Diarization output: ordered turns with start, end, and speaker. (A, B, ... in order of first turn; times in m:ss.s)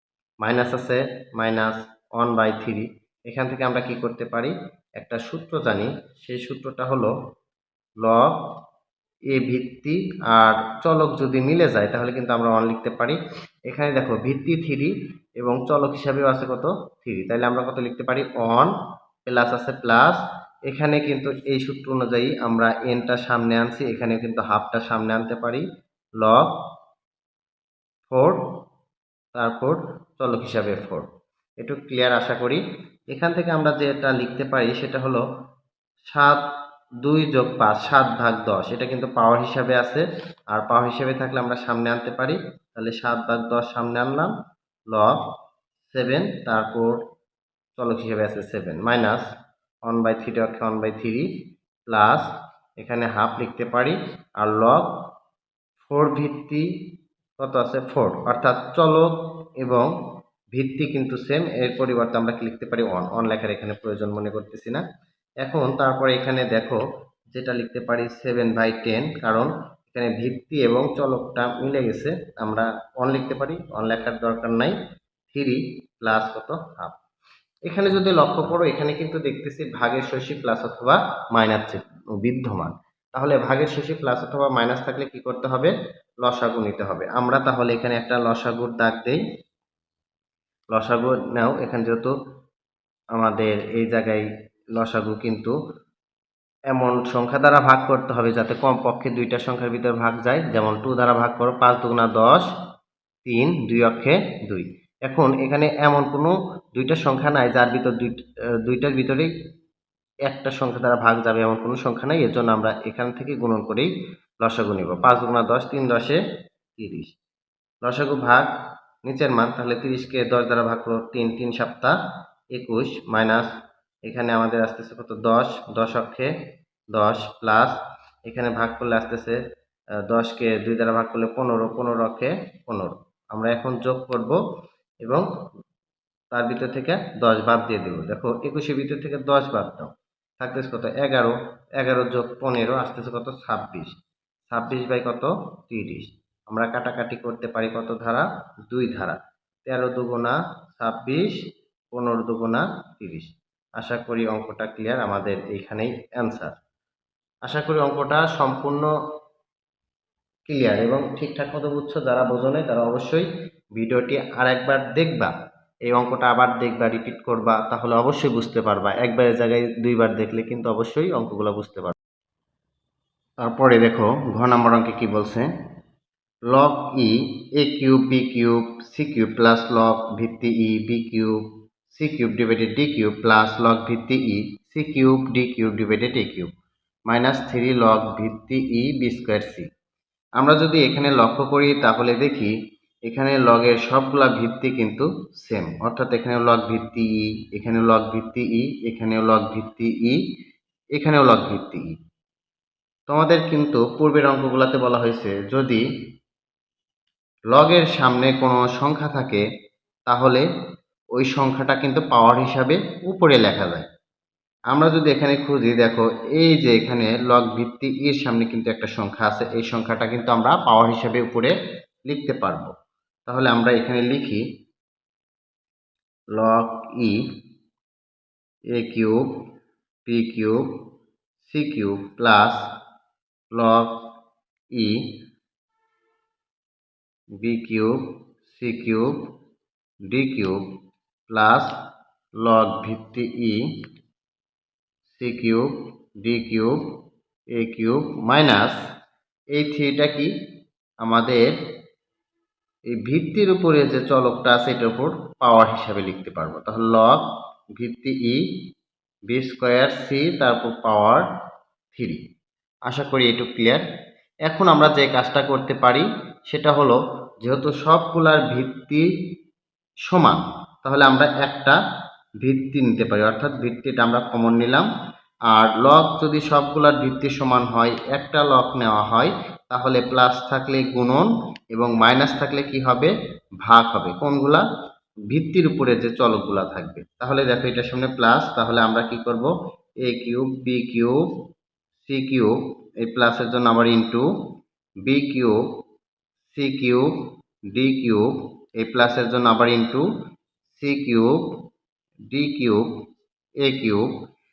0:00.4-0:07.2 A
0:08.0-0:08.6 A
0:09.3-0:18.7 A
0:19.3-0:25.6 A
0:26.2-0:26.6 A
0:28.1-0:28.6 A
0:29.4-0:31.1 A
0:31.6-0:35.2 A
0:36.1-0:36.4 A
0:37.0-0:44.3 A
0:44.9-0:45.3 A
0:45.9-0:47.1 A
0:47.8-0:49.3 A
0:49.9-0:55.1 A
0:55.9-0:56.7 A
0:57.4-0:59.9 A
1:00.5-1:04.8 A
1:05.4-1:06.8 A
1:07.3-1:14.8 A
1:15.3-1:17.0 A
1:17.7-1:29.2 A
1:30.7-1:32.1 A
1:33.2-1:35.6 A
1:36.7-1:42.5 A
1:43.2-1:49.3 A
1:50.3-1:53.9 A
1:54.4-1:56.2 A
1:56.8-1:57.2 A
1:57.8-1:58.5 A
1:59.0-2:02.0 A
2:02.5-2:03.5 A
2:04.1-2:06.3 A
2:06.9-2:09.4 A
2:10.1-2:14.4 A
2:16.3-2:24.0 A
2:24.5-2:36.6 A
2:37.4-2:38.9 A
2:40.5-2:45.3 A
2:45.9-2:52.0 A
2:53.4-2:55.5 A
2:56.5-3:06.5 A
3:07.1-3:09.7 A
3:10.4-3:12.6 A
3:13.1-3:20.2 A
3:21.0-3:22.0 A
3:23.1-3:25.8 A
3:27.5-3:29.4 A
3:30.1-3:30.4 A
3:31.2-3:33.9 A
3:34.7-3:41.6 A
3:42.1-3:42.7 A
3:43.3-3:44.5 A
3:46.4-3:47.4 A
3:48.7-3:49.5 A
3:50.1-3:50.9 A
3:51.4-3:52.7 A
3:53.5-3:54.1 A
3:54.7-3:55.2 A
3:57.4-3:59.4 A
4:00.1-4:00.8 A
4:01.3-4:01.8 A
4:02.4-4:03.9 A
4:05.2-4:07.0 A
4:07.6-4:08.8 A
4:09.5-4:10.3 A
4:11.0-4:11.6 A
4:12.9-4:17.3 A
4:17.8-4:18.4 A
4:19.3-4:21.3 A
4:21.9-4:22.2 A
4:22.9-4:23.8 A
4:24.5-4:29.1 A
4:30.1-4:31.8 A
4:32.4-4:34.9 A
4:35.5-4:44.6 A
4:45.3-4:51.4 A
4:52.1-4:54.3 A
4:55.1-4:55.6 A
4:56.5-5:00.1 A
5:00.8-5:01.6 A
5:02.3-5:02.9 A
5:03.6-5:04.1 A